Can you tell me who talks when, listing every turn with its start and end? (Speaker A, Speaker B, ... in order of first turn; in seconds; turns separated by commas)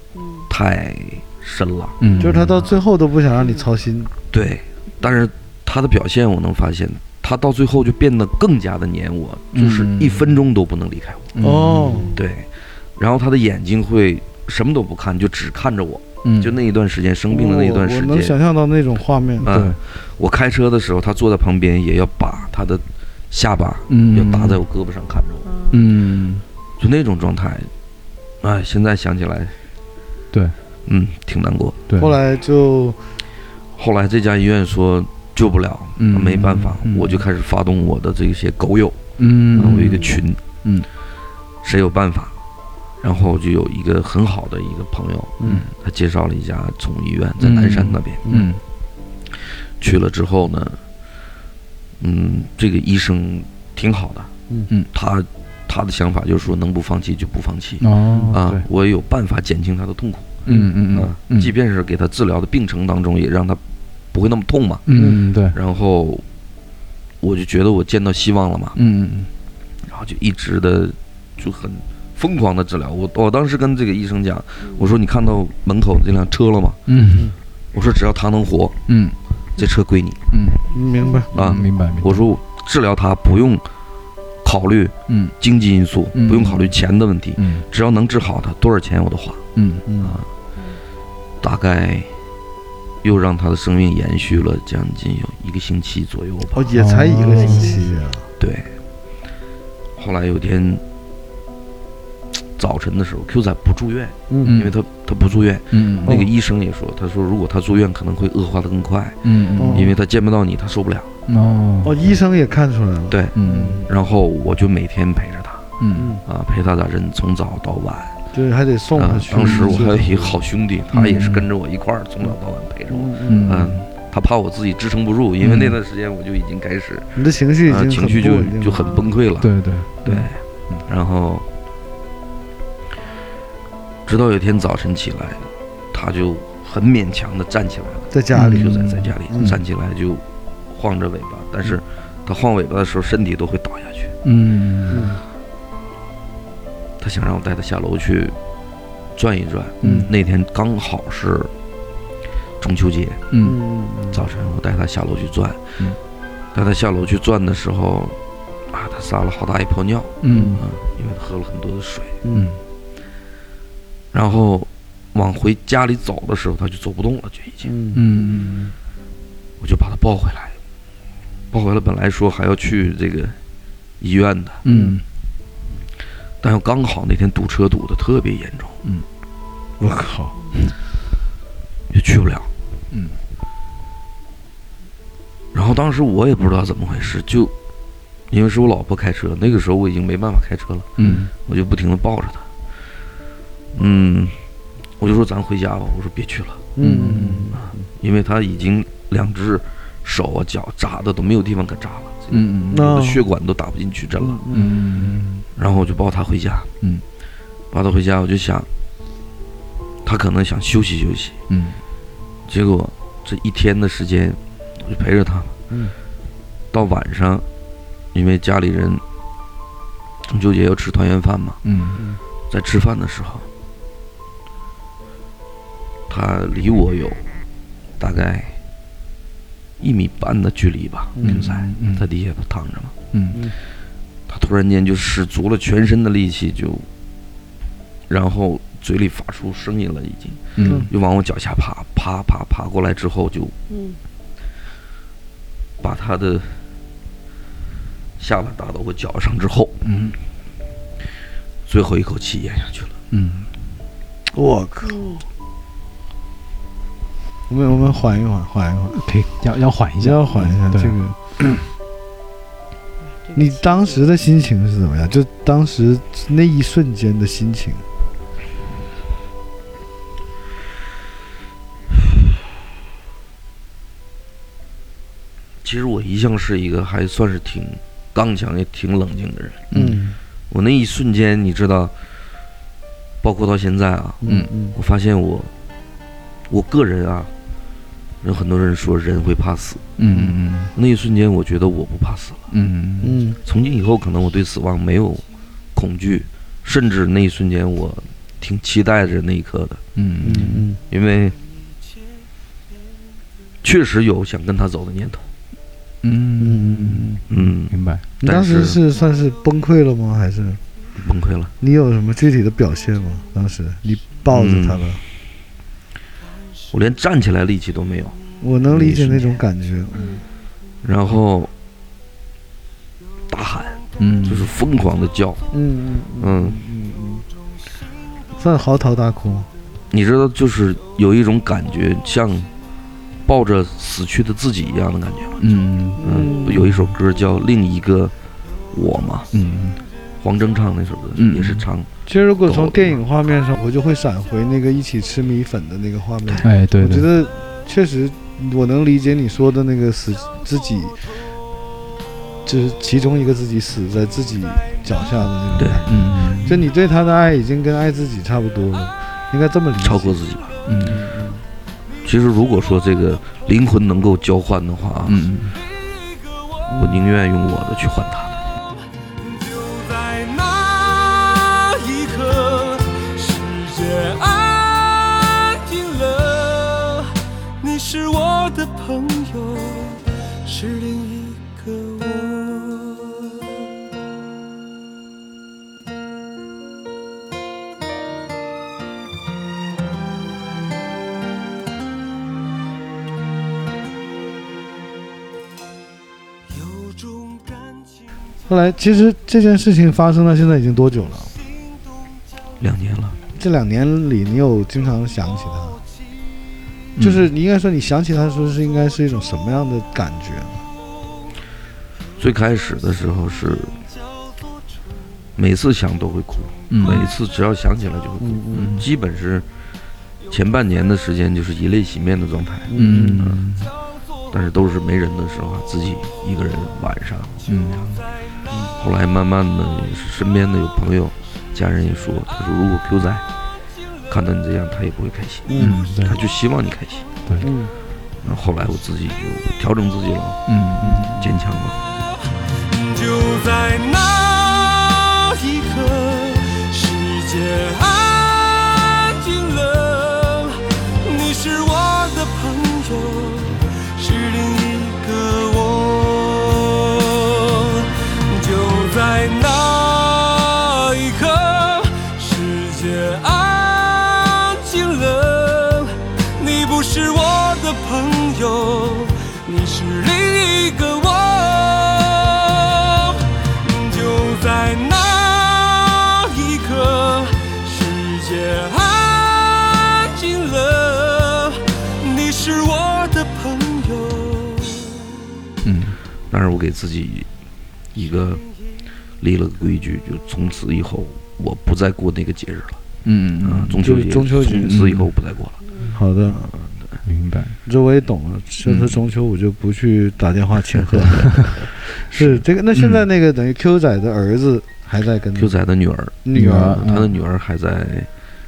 Speaker A: 0.2-0.5, Speaker B: 0.5-2.1, Speaker C: 2.0-2.5, Speaker D: 2.2-4.1, Speaker B: 4.3-11.4, Speaker C: 9.5-10.3, Speaker C: 11.3-12.1, Speaker D: 11.4-12.1, Speaker B: 12.1-18.3, Speaker C: 16.2-16.5, Speaker D: 17.3-19.4, Speaker B: 19.4-25.5, Speaker C: 19.5-19.8, Speaker C: 23.9-24.6, Speaker A: 25.4-25.8, Speaker C: 25.7-26.4, Speaker B: 26.8-27.7, Speaker B: 28.4-29.5, Speaker B: 30.9-31.8, Speaker C: 31.9-32.1, Speaker D: 32.0-33.0, Speaker B: 33.8-40.4, Speaker C: 36.0-37.2, Speaker C: 39.2-40.1, Speaker B: 41.6-42.3, Speaker B: 43.0-48.2, Speaker C: 47.4-48.6, Speaker D: 48.2-48.5, Speaker B: 49.8-50.8, Speaker B: 52.0-54.3, Speaker B: 54.9-63.6, Speaker C: 57.8-58.6, Speaker C: 60.5-61.5, Speaker B: 64.1-64.9, Speaker C: 64.9-65.6, Speaker D: 64.9-65.2, Speaker B: 65.5-66.2, Speaker B: 67.2-68.8, Speaker C: 68.7-69.3, Speaker B: 69.9-76.8, Speaker C: 76.9-77.3, Speaker B: 77.7-78.8, Speaker C: 78.9-79.2, Speaker B: 79.6-80.2, Speaker C: 80.3-80.6, Speaker D: 80.7-81.3, Speaker A: 80.7-81.3, Speaker B: 81.3-83.6, Speaker C: 81.3-82.2, Speaker B: 84.4-89.4, Speaker C: 85.1-85.3, Speaker C: 86.1-86.7, Speaker C: 87.4-87.6, Speaker C: 89.5-89.8, Speaker D: 89.8-90.1, Speaker B: 90.0-90.3, Speaker B: 91.4-92.1, Speaker B: 93.0-96.7, Speaker D: 96.5-98.2, Speaker C: 96.8-97.8, Speaker A: 97.3-97.9, Speaker B: 98.4-98.7, Speaker B: 100.0-100.8, Speaker B: 102.6-111.1, Speaker D: 104.3-104.6, Speaker C: 104.4-104.7, Speaker C: 105.7-106.2, Speaker C: 109.2-109.9, Speaker D: 109.6-109.9, Speaker C: 111.3-112.0, Speaker D: 111.8-113.9, Speaker B: 113.1-115.7, Speaker C: 113.3-113.8, Speaker C: 115.8-116.1, Speaker D: 116.0-116.2, Speaker B: 116.2-118.2, Speaker D: 118.3-120.3, Speaker B: 119.0-129.5, Speaker C: 119.4-119.8, Speaker C: 120.9-121.5, Speaker D: 122.9-123.5, Speaker C: 123.2-123.8, Speaker C: 125.4-125.8, Speaker D: 127.2-129.0, Speaker A: 128.8-129.1, Speaker C: 129.4-130.1, Speaker B: 130.0-131.4, Speaker B: 134.1-144.1, Speaker D: 138.1-139.6, Speaker C: 138.3-139.6, Speaker C: 144.2-145.1, Speaker D: 144.9-145.2, Speaker B: 147.0-148.3, Speaker B: 149.1-151.5, Speaker C: 149.8-150.1, Speaker D: 149.8-150.1, Speaker B: 152.6-153.2, Speaker C: 153.3-153.6, Speaker D: 153.4-154.2, Speaker B: 154.1-155.6, Speaker B: 156.5-158.2, Speaker B: 158.7-162.2, Speaker C: 160.2-160.6, Speaker D: 160.3-160.6, Speaker D: 162.2-162.5, Speaker C: 162.3-162.6, Speaker B: 164.1-167.7, Speaker D: 167.6-168.0, Speaker C: 167.9-168.7, Speaker B: 169.6-170.5, Speaker B: 171.5-173.3, Speaker B: 174.0-174.6, Speaker C: 174.6-175.0, Speaker D: 174.7-175.0, Speaker B: 176.4-178.8, Speaker D: 179.8-180.5, Speaker B: 181.9-182.5, Speaker B: 185.5-187.5, Speaker B: 188.3-192.4, Speaker C: 191.0-191.3, Speaker B: 193.7-194.4, Speaker B: 195.0-196.7, Speaker D: 196.8-197.9, Speaker C: 196.8-197.5, Speaker B: 197.6-204.4, Speaker C: 202.3-202.9, Speaker D: 202.7-203.2, Speaker D: 204.2-205.1, Speaker C: 204.5-205.4, Speaker B: 205.6-206.7, Speaker B: 207.7-208.7, Speaker B: 210.0-211.4, Speaker C: 211.5-211.8, Speaker B: 212.5-215.5, Speaker B: 216.7-217.4, Speaker B: 218.1-219.0, Speaker B: 220.3-221.6, Speaker C: 221.6-222.0, Speaker B: 222.5-223.4, Speaker B: 226.1-227.2, Speaker B: 228.0-228.6, Speaker B: 229.8-232.9, Speaker D: 231.2-231.4, Speaker C: 231.2-232.1, Speaker C: 233.1-233.4, Speaker B: 234.3-236.8, Speaker B: 238.1-243.5, Speaker C: 240.6-240.9, Speaker D: 240.6-240.9, Speaker A: 243.7-244.0, Speaker B: 245.8-246.6, Speaker B: 248.2-249.7, Speaker C: 249.8-250.2, Speaker B: 251.7-252.9, Speaker C: 253.1-253.5, Speaker D: 254.3-255.1, Speaker A: 254.8-255.2, Speaker D: 257.5-259.0, Speaker C: 258.9-260.9, Speaker D: 260.0-261.1, Speaker A: 263.2-264.0, Speaker D: 263.3-267.8, Speaker B: 275.6-279.7, Speaker C: 279.7-280.0, Speaker D: 279.7-280.2, Speaker B: 280.5-281.9, Speaker B: 283.2-285.5, Speaker D: 284.2-284.7, Speaker B: 286.5-287.3, Speaker B: 288.2-289.9, Speaker C: 290.0-290.7, Speaker B: 290.7-292.4, Speaker C: 292.5-293.2, Speaker D: 293.0-293.4, Speaker B: 293.4-295.2, Speaker B: 295.7-299.8, Speaker C: 299.9-300.6, Speaker D: 300.2-300.8, Speaker B: 300.9-301.4, Speaker B: 303.6-305.2, Speaker C: 306.0-308.0, Speaker D: 306.4-307.2, Speaker B: 307.3-308.8, Speaker D: 308.2-310.6, Speaker B: 311.0-311.5, Speaker D: 311.6-315.0, Speaker B: 314.3-314.9, Speaker B: 316.7-318.2, Speaker D: 318.4-320.2, Speaker B: 318.7-319.4, Speaker B: 320.8-321.5, Speaker B: 323.3-325.4, Speaker C: 324.0-324.4, Speaker D: 325.5-327.2, Speaker B: 326.2-326.6, Speaker D: 328.4-329.5, Speaker B: 329.9-332.5, Speaker B: 333.2-335.4, Speaker C: 335.4-336.9, Speaker D: 336.0-336.6, Speaker B: 336.0-338.1, Speaker B: 338.7-339.3, Speaker C: 339.3-339.8, Speaker B: 340.2-341.9, Speaker C: 341.1-341.7, Speaker D: 342.1-351.0, Speaker B: 342.4-343.0, Speaker C: 346.4-347.1, Speaker D: 352.4-360.1, Speaker C: 355.9-356.6, Speaker B: 359.8-360.5, Speaker C: 360.6-361.0, Speaker D: 360.8-361.4, Speaker B: 362.0-365.3, Speaker C: 365.1-365.6, Speaker B: 366.8-368.4, Speaker E: 369.1-383.4, Speaker E: 396.5-397.8, Speaker D: 398.5-401.3, Speaker B: 402.6-403.2, Speaker D: 403.4-405.8, Speaker C: 406.9-407.3, Speaker D: 407.0-410.6, Speaker B: 412.2-413.8, Speaker B: 415.4-419.4, Speaker C: 416.7-417.1, Speaker D: 418.2-418.7, Speaker C: 418.5-418.9, Speaker B: 420.3-423.4, Speaker D: 422.7-423.2, Speaker C: 422.8-423.7, Speaker B: 424.3-427.4, Speaker C: 427.4-428.0, Speaker B: 428.8-433.2, Speaker B: 434.1-437.1, Speaker D: 435.5-435.8, Speaker C: 435.6-436.2, Speaker D: 437.4-437.7, Speaker B: 438.2-440.5, Speaker C: 440.5-441.1, Speaker D: 440.8-441.3, Speaker B: 441.1-441.8, Speaker E: 442.6-485.1, Speaker C: 485.6-486.0, Speaker B: 486.3-487.3, Speaker B: 487.9-488.4, Speaker B: 489.2-492.8, Speaker C: 493.0-493.9, Speaker B: 493.4-495.6, Speaker D: 493.8-494.8, Speaker C: 494.6-495.1, Speaker D: 495.9-496.5, Speaker C: 497.0-497.6, Speaker D: 497.6-505.5, Speaker B: 500.7-502.4, Speaker C: 502.7-503.1, Speaker B: 505.3-508.1, Speaker D: 506.2-506.9, Speaker C: 506.3-507.1